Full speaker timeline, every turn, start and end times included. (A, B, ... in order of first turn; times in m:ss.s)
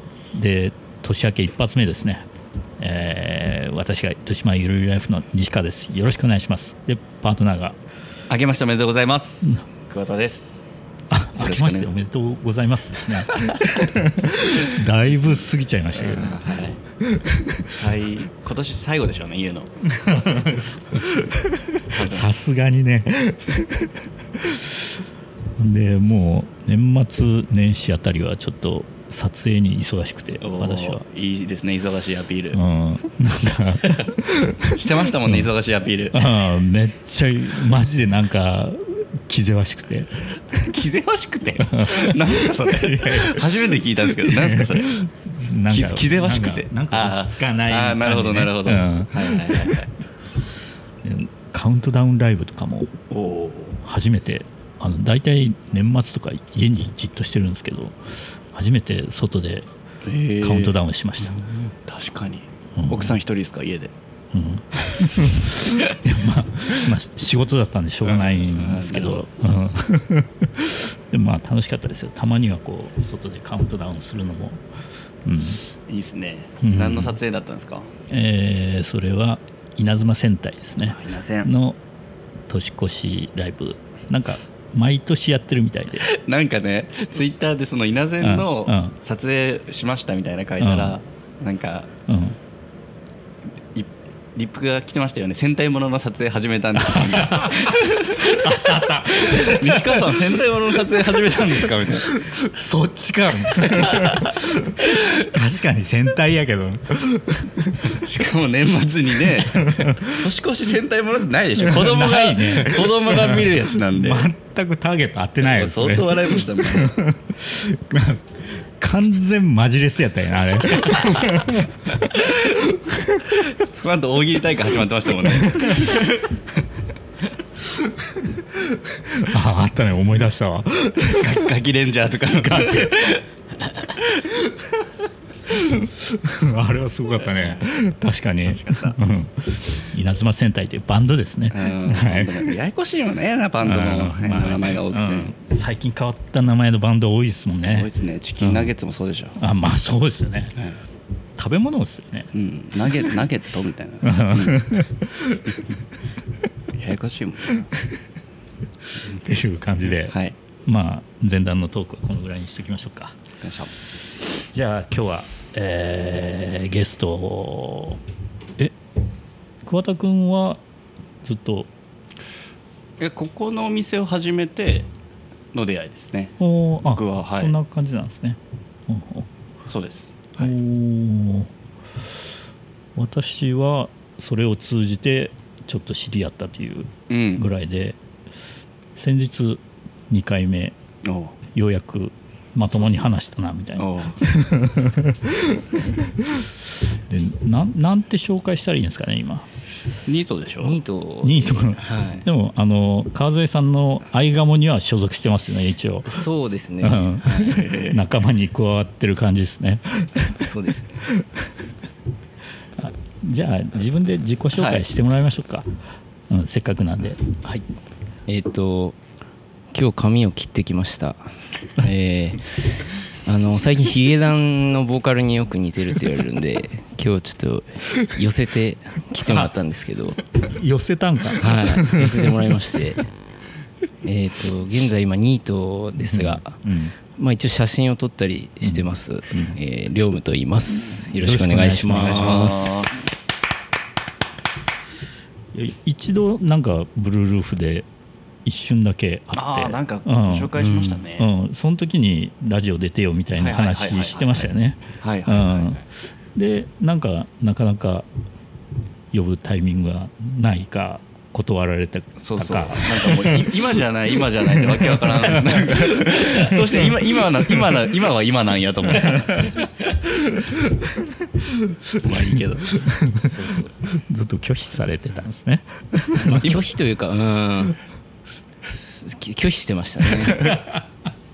0:00.3-0:02.3 A
0:02.8-0:07.8 A
0:08.3-0:10.7 B
0:11.1-0:17.8 A
0:11.4-0:11.9 B
0:13.3-0:13.7 B
0:15.9-0:16.8 B
0:17.7-0:19.7 B
0:19.8-0:25.0 A
0:21.8-0:22.3 B
0:25.6-0:31.0 A
0:30.4-0:32.6 B
0:32.5-0:35.5 A
0:34.7-0:36.3 B
0:36.1-0:40.8 A
0:40.6-0:45.0 B
0:41.6-0:49.8 A
0:45.7-0:49.9 B
0:51.0-0:52.9 A
0:53.1-0:53.8 B
0:53.8-0:59.7 A
1:00.0-1:00.7 B
1:00.4-1:01.4 A
1:01.4-1:01.7 C
1:01.8-1:03.9 B
1:02.8-1:03.2 A
1:04.3-1:14.6 A
1:08.0-1:09.2 B
1:15.2-1:15.6 A
1:15.9-1:17.9 B
1:16.6-1:17.2 A
1:18.1-1:21.8 A
1:20.8-1:21.5 B
1:22.5-1:26.1 A
1:26.0-1:31.9 B
1:28.2-1:28.9 A
1:30.6-1:31.0 A
1:32.1-1:32.4 A
1:33.7-1:42.2 B
1:36.7-1:40.4 A
1:41.6-1:48.0 A
1:47.9-1:54.3 B
1:49.3-1:50.3 A
1:51.6-2:02.0 A
1:55.4-1:57.0 B
2:02.5-2:03.4 A
2:03.4-2:06.3 B
2:05.3-2:05.9 A
2:07.7-2:11.5 A
2:11.0-2:13.2 B
2:12.4-2:13.0 A
2:14.0-2:14.3 B
2:15.5-2:22.6 A
2:17.2-2:17.7 B
2:18.4-2:19.0 B
2:21.5-2:25.3 B
2:23.6-2:28.7 A
2:27.6-2:29.4 B
2:29.4-2:30.5 A
2:31.4-2:32.3 A
2:32.3-2:34.8 B
2:34.0-2:35.6 A
2:36.7-2:37.7 B
2:38.9-2:43.2 A
2:40.1-2:40.3 B
2:43.4-2:43.7 B
2:44.3-2:48.0 A
2:49.6-2:50.6 A
2:51.2-2:51.7 A
2:53.0-2:54.9 B
2:55.5-2:56.4 B
2:56.4-2:59.3 A
2:56.9-2:57.5 B
2:59.7-3:00.5 B
3:00.4-3:02.4 A
3:03.0-3:08.0 A
3:07.1-3:07.4 B
3:08.9-3:10.8 A
3:11.0-3:11.4 B
3:11.5-3:15.6 A
3:12.7-3:13.1 B
3:13.8-3:14.2 B
3:15.5-3:16.0 B
3:16.2-3:19.5 A
3:20.0-3:20.8 B
3:20.6-3:22.3 C
3:21.2-3:26.3 A
3:26.0-3:27.6 C
3:26.8-3:30.5 A
3:27.5-3:28.0 B
3:30.4-3:31.1 C
3:31.1-3:31.7 A
3:32.8-3:35.8 A
3:34.5-3:34.8 B
3:36.3-3:37.2 A
3:38.3-3:39.0 C
3:39.7-3:50.2 C
3:49.3-3:49.5 A
3:50.3-3:52.6 A
3:51.4-3:53.1 C
3:54.0-3:56.6 C
3:56.0-3:56.9 A
3:57.1-4:02.7 C
3:58.6-3:59.6 A
4:01.2-4:02.7 A
4:01.9-4:03.0 B
4:05.5-4:07.8 A
4:08.4-4:10.5 A
4:09.3-4:11.3 B
4:10.6-4:11.0 C
4:11.1-4:18.1 A
4:13.4-4:15.8 B
4:19.1-4:23.6 A
4:22.2-4:29.6 B
4:24.4-4:26.9 A
4:28.9-4:33.3 A
4:32.0-4:32.7 B
4:33.2-4:33.7 C
4:33.8-4:36.6 A
4:36.2-4:37.8 C
4:38.7-4:40.6 C
4:40.2-4:40.8 A